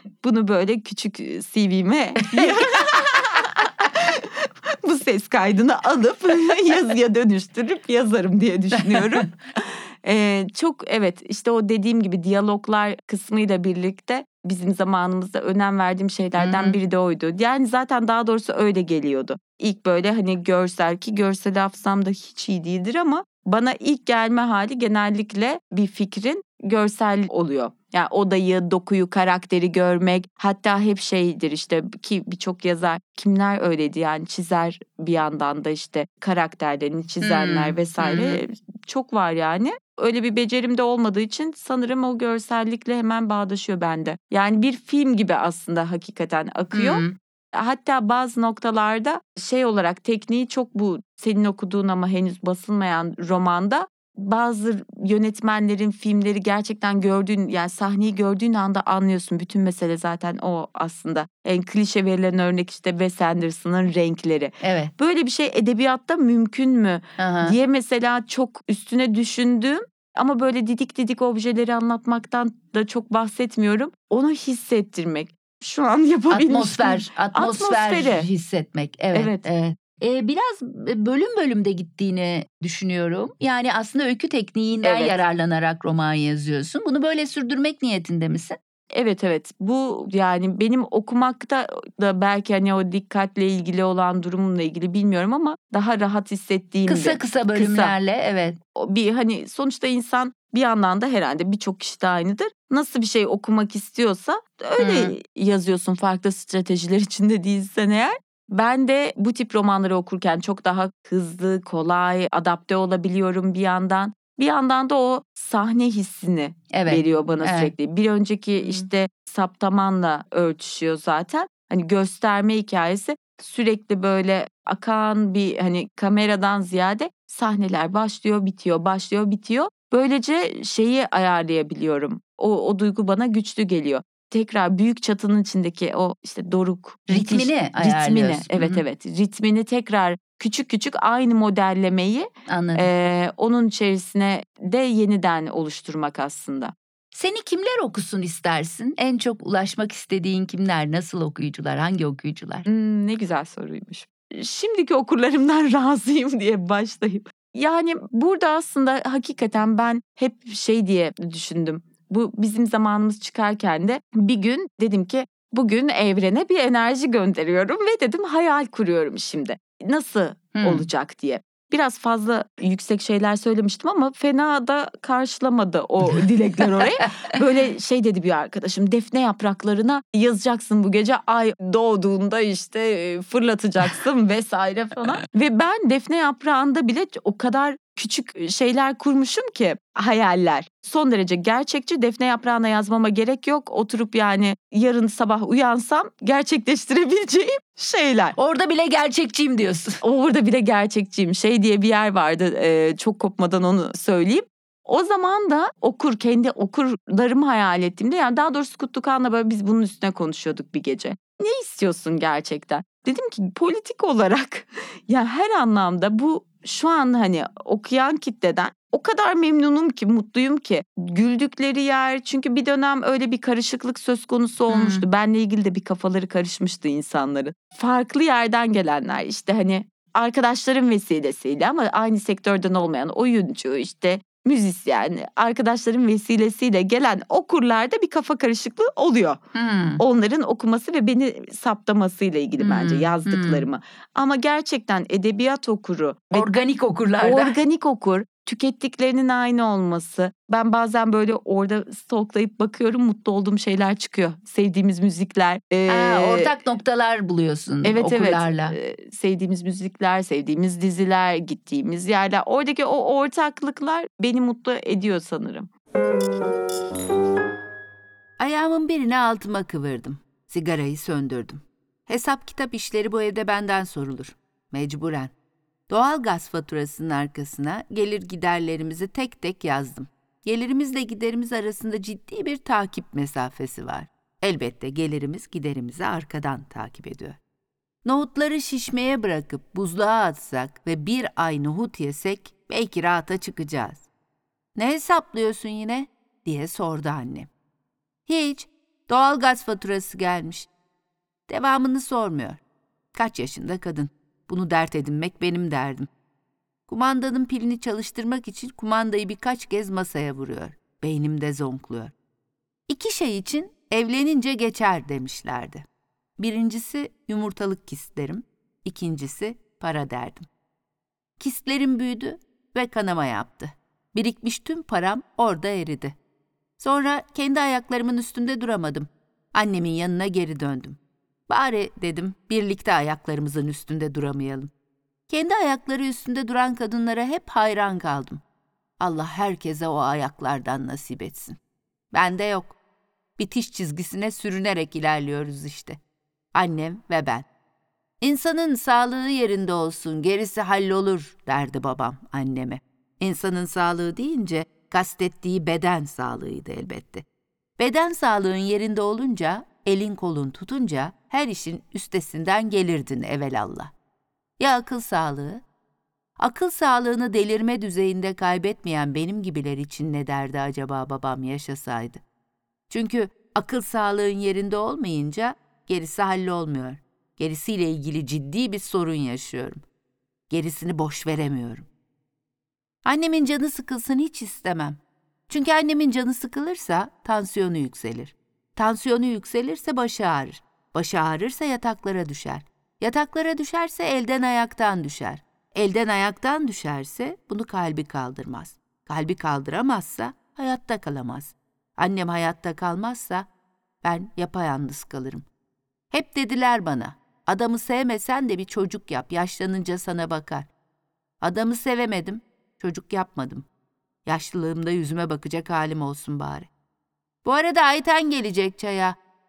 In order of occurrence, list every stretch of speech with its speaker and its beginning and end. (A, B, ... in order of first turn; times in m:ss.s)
0:00.2-1:18.3 A
0:02.2-0:02.9 B
0:08.8-0:09.2 B
0:16.4-0:16.8 B
0:37.2-0:38.4 B
0:46.7-0:47.2 B
1:04.6-1:04.9 B
1:07.2-1:07.6 B
1:16.3-1:28.6 B
1:19.1-1:19.5 A
1:24.8-1:25.2 A
1:28.9-1:37.9 A
1:36.9-1:38.6 B
1:38.8-2:26.7 A
1:44.8-1:45.1 B
1:56.7-1:57.7 B
1:58.6-1:58.9 B
2:17.1-2:18.8 B
2:22.5-2:22.9 B
2:27.1-2:32.7 B
2:32.7-3:18.4 A
2:50.6-2:50.9 B
3:18.4-3:20.0 B
3:20.0-3:59.4 A
3:44.7-3:45.0 B
3:59.6-4:00.0 B
4:00.0-4:06.5 A
4:02.6-4:03.6 B
4:06.3-4:07.6 B
4:07.2-4:16.5 A
4:15.9-4:18.8 B
4:17.8-4:25.7 A
4:28.4-4:35.3 B
4:35.9-4:47.4 B
4:48.0-4:54.1 B
4:54.8-4:57.5 B
4:58.3-5:00.7 B
5:01.5-5:02.6 B
5:03.1-5:06.1 B
5:06.9-5:12.1 B
5:12.9-5:15.9 B
5:16.4-5:20.5 B
5:21.4-5:26.2 B
5:26.8-5:34.7 B
5:35.3-5:38.4 B
5:39.0-5:41.6 B
5:42.1-5:42.8 B
5:43.4-5:46.0 B
5:46.5-5:47.5 B
5:48.2-5:57.3 B
5:57.8-6:03.9 B
6:04.6-6:05.6 B
6:06.4-6:12.2 B
6:12.9-6:19.8 B
6:20.5-6:21.9 B
6:23.0-6:43.5 B
6:44.0-6:45.5 B
6:46.1-6:50.7 B
6:51.4-6:53.7 B
6:54.2-6:56.7 B
6:57.4-6:59.2 B